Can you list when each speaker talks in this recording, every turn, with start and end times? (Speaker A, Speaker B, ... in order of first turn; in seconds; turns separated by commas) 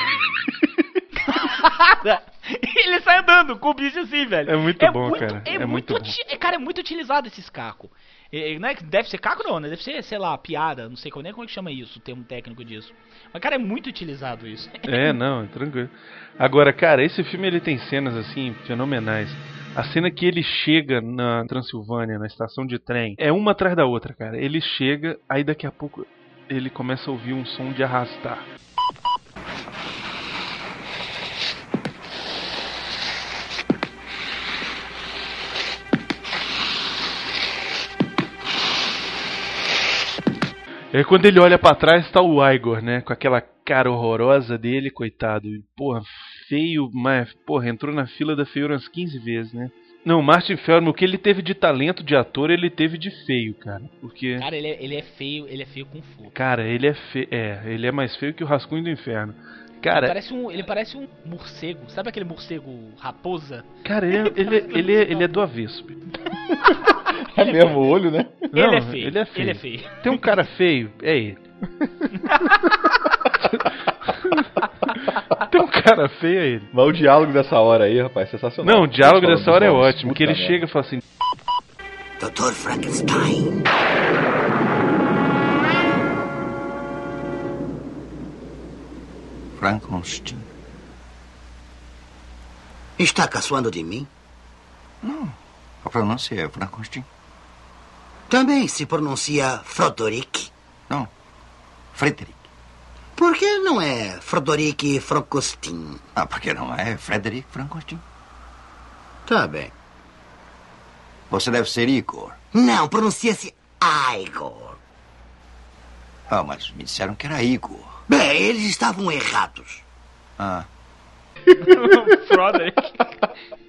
Speaker A: 1.2-15.2, Speaker B: 4.5-6.1, Speaker B: 14.9-28.5, Speaker B: 40.9-54.5, Speaker A: 54.4-56.3, Speaker B: 56.3-60.2, Speaker A: 59.9-63.7, Speaker B: 63.9-66.0, Speaker A: 64.3-65.2, Speaker C: 67.2-68.5, Speaker B: 68.5-71.4, Speaker A: 68.5-70.0, Speaker A: 72.2-73.0, Speaker B: 73.5-74.5, Speaker B: 75.4-76.7, Speaker C: 76.7-80.6, Speaker B: 78.6-81.0, Speaker D: 82.2-83.7, Speaker E: 89.6-90.5, Speaker D: 93.0-94.1, Speaker E: 95.0-97.1, Speaker D: 98.3-100.5, Speaker E: 102.0-102.4, Speaker D: 103.2-106.0, Speaker E: 106.2-108.0, Speaker D: 109.3-109.7, Speaker E: 111.3-112.4, Speaker D: 112.5-114.8, Speaker E: 116.3-118.0, Speaker D: 118.1-119.8, Speaker E: 120.4-120.7, Speaker A: 121.5-123.2